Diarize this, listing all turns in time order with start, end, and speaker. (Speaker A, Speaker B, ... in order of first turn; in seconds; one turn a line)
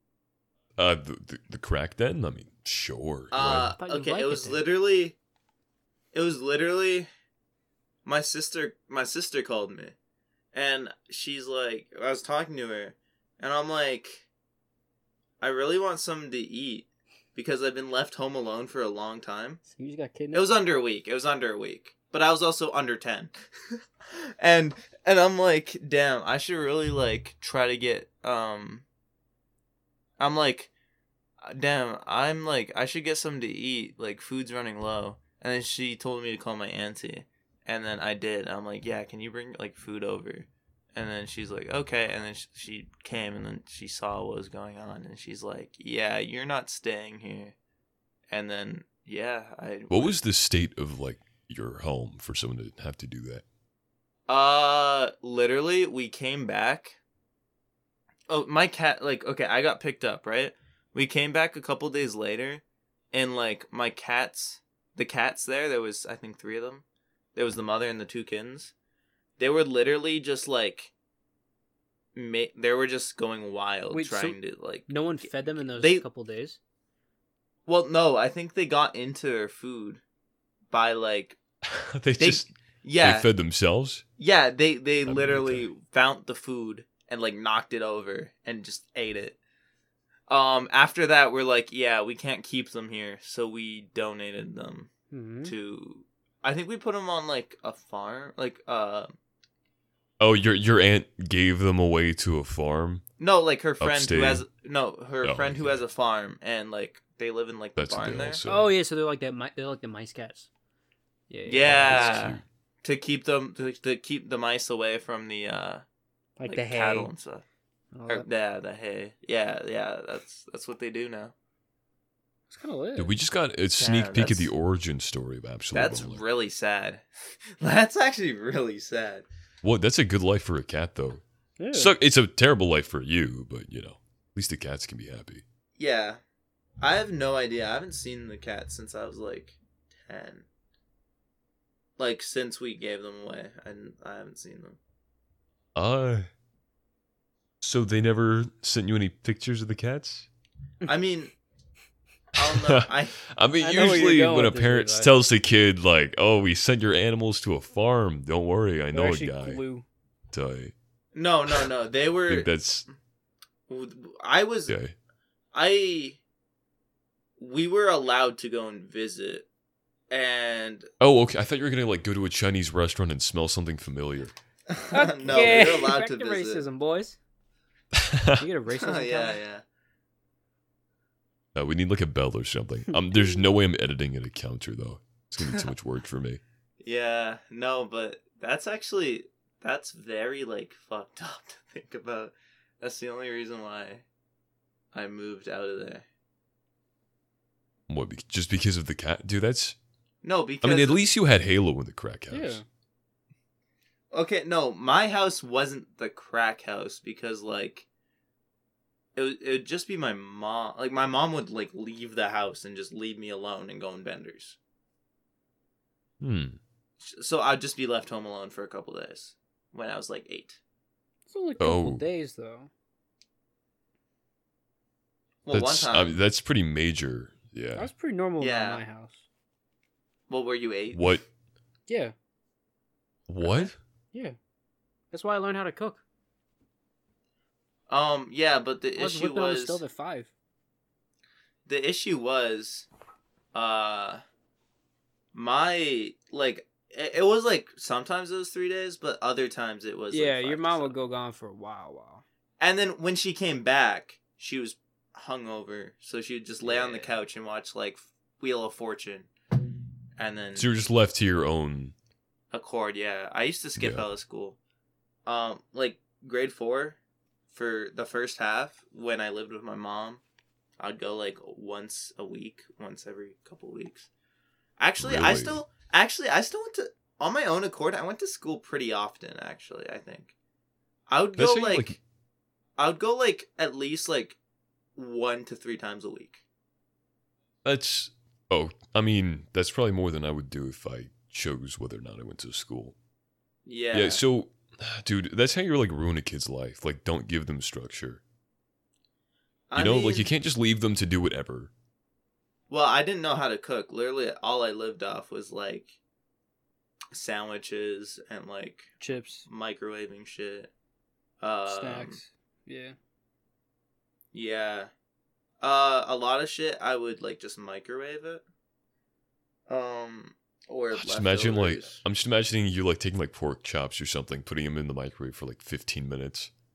Speaker A: 0.8-3.7
Speaker B: 3.3-5.2
Speaker C: 3.8-4.6
Speaker B: 6.1-7.1
Speaker B: 8.1-9.9
Speaker B: 10.5-14.2
Speaker B: 15.4-19.6
Speaker C: 19.7-20.5
Speaker B: 20.3-23.3
Speaker B: 24.1-28.9
Speaker B: 30.2-30.7
Speaker B: 31.4-47.6
Speaker B: 48.3-50.2
Speaker A: 49.9-53.4
Speaker B: 54.3-57.0
Speaker B: 58.3-66.8
Speaker B: 67.4-68.7
Speaker B: 69.4-70.9
Speaker B: 72.2-76.0
Speaker C: 73.9-76.6
Speaker B: 77.7-80.0
Speaker B: 80.7-81.4
Speaker A: 81.7-84.0
Speaker B: 82.2-83.3
Speaker B: 84.2-89.4
Speaker A: 85.0-85.7
Speaker B: 90.3-94.9
Speaker C: 95.1-95.5
Speaker B: 95.4-99.2
Speaker A: 100.2-103.0
Speaker B: 103.2-108.4
Speaker A: 103.8-104.4
Speaker A: 105.2-105.8
Speaker A: 107.8-108.7
Speaker C: 108.5-110.5
Speaker C: 111.3-112.3
Speaker B: 111.5-115.8
Speaker A: 111.6-112.4
Speaker C: 116.4-117.1
Speaker B: 116.5-117.5
Speaker C: 117.9-118.3
Speaker B: 118.1-121.3
Speaker C: 122.5-123.1
Speaker A: 123.0-126.2
Speaker B: 123.8-124.5
Speaker B: 125.7-129.3
Speaker A: 129.6-131.2
Speaker C: 131.6-131.9
Speaker A: 131.7-135.4
Speaker B: 135.8-136.2
Speaker B: 136.8-140.5
Speaker B: 142.0-144.8
Speaker A: 145.8-146.3
Speaker A: 147.6-150.3
Speaker B: 150.9-151.3
Speaker B: 152.3-153.2
Speaker A: 152.4-159.6
Speaker C: 153.6-155.1
Speaker C: 158.9-159.8
Speaker A: 160.3-160.7
Speaker B: 161.2-162.5
Speaker A: 162.3-162.9
Speaker B: 163.7-164.8
Speaker A: 164.7-164.9
Speaker B: 165.5-166.2
Speaker B: 167.4-169.5
Speaker B: 170.1-170.9
Speaker A: 171.0-174.3
Speaker B: 174.7-176.6
Speaker C: 174.9-177.2
Speaker A: 175.3-175.8
Speaker A: 178.0-178.4
Speaker C: 178.4-179.4
Speaker B: 178.7-179.6
Speaker A: 181.6-186.4
Speaker B: 186.8-194.1
Speaker B: 194.9-196.1
Speaker A: 197.9-199.8
Speaker B: 200.2-201.0
Speaker A: 200.6-202.6
Speaker C: 202.3-202.6
Speaker B: 204.1-207.9
Speaker B: 209.2-214.6
Speaker A: 216.2-216.6
Speaker B: 217.0-220.6
Speaker C: 221.3-222.7
Speaker A: 221.6-222.0
Speaker B: 225.5-226.2
Speaker A: 225.5-227.9
Speaker C: 227.8-229.2
Speaker B: 228.4-228.8
Speaker B: 230.3-231.2
Speaker A: 230.9-231.2
Speaker C: 231.9-232.1
Speaker A: 233.3-233.7
Speaker B: 233.5-233.7
Speaker C: 235.1-236.0
Speaker B: 237.9-239.8
Speaker C: 239.0-240.3
Speaker B: 241.7-242.9
Speaker B: 243.5-244.2
Speaker B: 245.3-251.0
Speaker C: 250.1-252.2
Speaker B: 252.6-259.3
Speaker C: 256.6-257.1
Speaker B: 260.2-260.7
Speaker A: 260.6-261.9
Speaker B: 262.5-264.6
Speaker A: 263.8-264.1
Speaker B: 265.3-267.0
Speaker B: 267.5-270.2
Speaker B: 270.8-274.1
Speaker B: 274.8-280.3
Speaker A: 275.0-275.6
Speaker B: 281.1-282.0
Speaker A: 281.4-282.0
Speaker B: 282.8-284.4
Speaker B: 285.0-286.4
Speaker A: 287.6-292.9
Speaker B: 293.7-294.2
Speaker A: 293.9-298.2
Speaker B: 299.7-300.3
Speaker A: 299.8-301.7
Speaker B: 302.7-306.0
Speaker B: 307.1-308.9
Speaker C: 309.0-309.5
Speaker B: 309.5-310.7
Speaker B: 311.4-312.2
Speaker C: 311.7-312.9
Speaker B: 314.3-314.9
Speaker B: 315.6-318.4
Speaker B: 319.7-322.0
Speaker A: 320.9-326.5